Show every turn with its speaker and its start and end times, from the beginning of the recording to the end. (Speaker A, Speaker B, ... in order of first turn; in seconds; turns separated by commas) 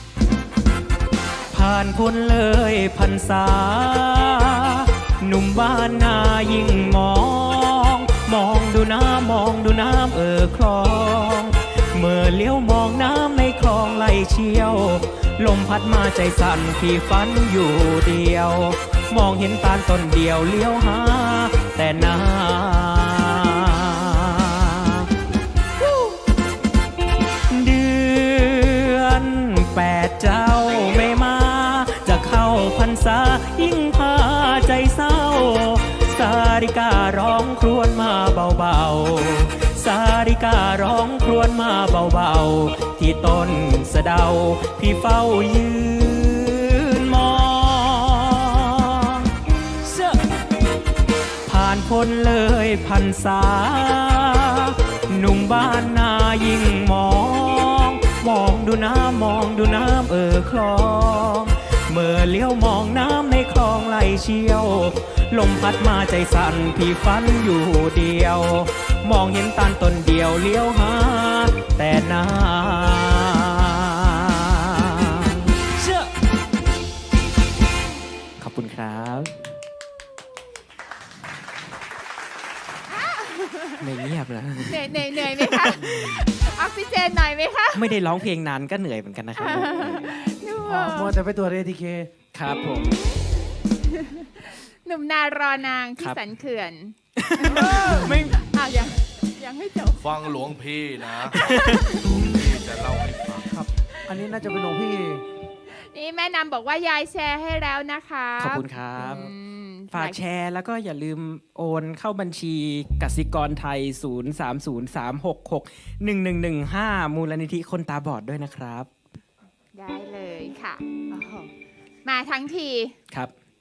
Speaker A: 1.5-25.1, Speaker A: 27.5-50.2, Speaker A: 51.5-76.1, Speaker A: 78.4-79.5, Speaker B: 82.9-83.8, Speaker A: 83.8-86.2, Speaker B: 84.7-87.8, Speaker A: 87.7-90.1, Speaker B: 89.3-91.2, Speaker C: 90.6-92.1, Speaker A: 92.3-93.0, Speaker B: 93.8-100.2, Speaker A: 97.2-98.5, Speaker C: 97.6-98.1, Speaker D: 100.0-101.4, Speaker B: 101.3-102.1, Speaker A: 101.3-101.9, Speaker D: 102.0-103.5, Speaker C: 103.5-105.2, Speaker B: 105.9-110.2, Speaker A: 108.4-109.3, Speaker A: 109.9-118.9, Speaker B: 119.7-121.5, Speaker B: 122.0-123.0